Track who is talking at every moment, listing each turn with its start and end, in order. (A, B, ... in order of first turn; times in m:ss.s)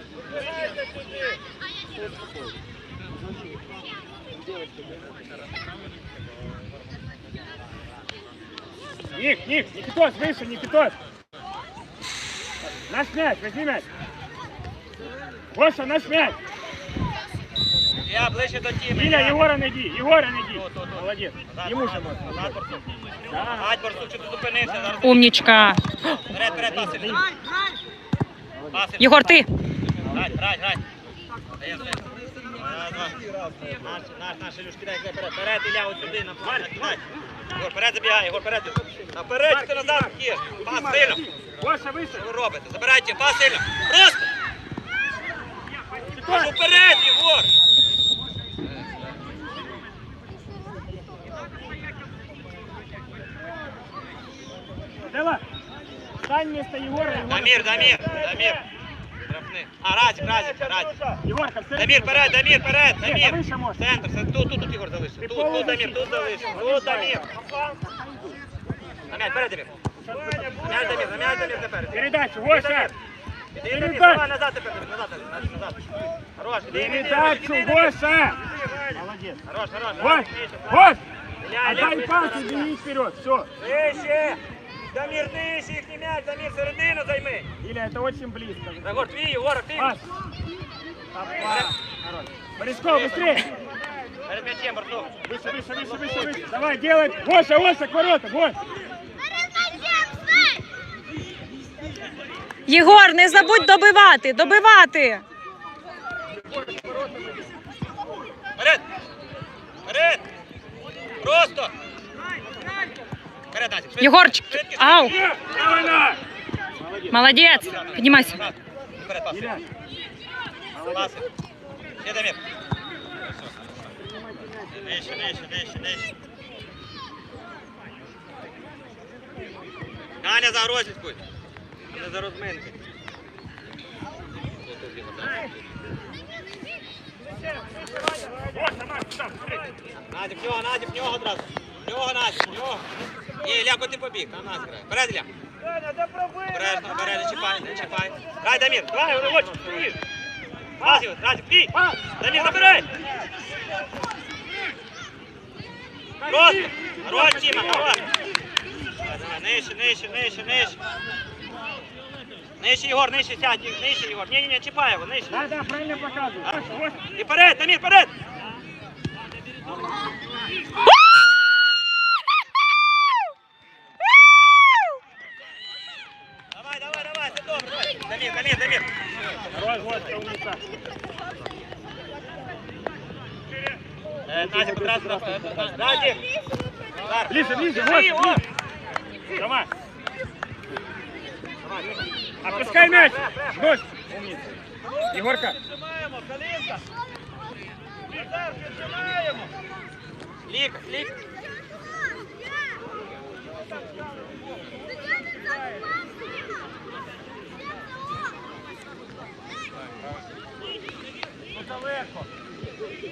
0:00.4-0:01.2 A
0:09.1-0:11.0 B
0:12.9-0:13.9 B
0:15.5-0:16.4 B
0:18.0-0:19.4 A
0:18.9-0:22.6 B
0:20.5-0:25.5 A
0:23.3-0:23.6 B
0:25.0-0:26.2 C
0:26.3-0:27.2 A
0:26.8-0:27.2 B
0:28.7-0:29.4 A
0:29.0-0:29.5 C
0:30.0-0:30.8 A
0:31.6-0:41.2 A
0:36.4-0:37.0 B
0:39.5-0:42.3 B
0:42.2-0:44.3 A
0:46.0-0:46.5 B
0:46.3-0:47.5 A
0:55.1-0:55.4 B
0:56.2-0:58.6 B
0:57.3-0:58.6 A
0:59.2-1:01.2 A
1:01.2-1:02.4 B
1:01.8-1:07.5 A
1:03.0-1:03.8 B
1:05.2-1:07.3 B
1:09.1-1:09.7 A
1:10.0-1:12.9 B
1:10.4-1:12.9 A
1:13.5-1:18.0 A
1:13.7-1:14.2 B
1:16.7-1:18.4 B
1:18.5-1:22.7 A
1:19.0-1:19.4 B
1:20.0-1:21.0 B
1:21.6-1:23.5 B
1:23.6-1:27.5 A
1:27.6-1:29.1 B
1:28.8-1:30.0 A
1:29.8-1:30.0 B
1:31.1-1:33.5 B
1:31.4-1:31.7 A
1:32.8-1:33.5 A
1:34.3-1:36.4 A
1:35.2-1:38.6 B
1:42.7-1:45.2 C
1:48.6-1:48.8 A
1:49.9-1:50.2 A
1:51.2-1:51.7 A
1:53.5-1:56.2 A
1:54.0-1:55.2 C
1:55.4-1:56.1 B
1:57.0-1:59.6 A
1:57.1-1:58.4 C
1:59.3-1:59.6 B
2:00.7-2:01.1 B
2:00.9-2:01.3 A
2:02.0-2:02.4 A
2:04.7-2:06.1 A
2:10.2-2:11.2 A
2:11.9-2:12.8 A
2:14.6-2:15.5 A
2:18.4-2:19.6 B
2:20.1-2:22.9 A
2:23.4-2:25.3 A
2:26.4-2:30.0 A
2:30.8-2:32.9 A
2:36.2-2:38.0 B
2:36.2-2:38.1 A
2:39.0-2:40.8 A
2:42.6-2:45.4 A
2:45.3-2:47.1 B
2:46.4-2:48.1 A
2:56.5-2:58.9 A
2:59.5-3:00.6 B
3:04.3-3:06.2 A
3:04.3-3:05.8 B
3:07.0-3:08.4 A
3:07.3-3:08.4 B
3:09.4-3:09.7 B
3:11.6-3:13.7 A
3:12.4-3:14.6 B
3:15.1-3:15.6 B
3:20.5-3:21.2 A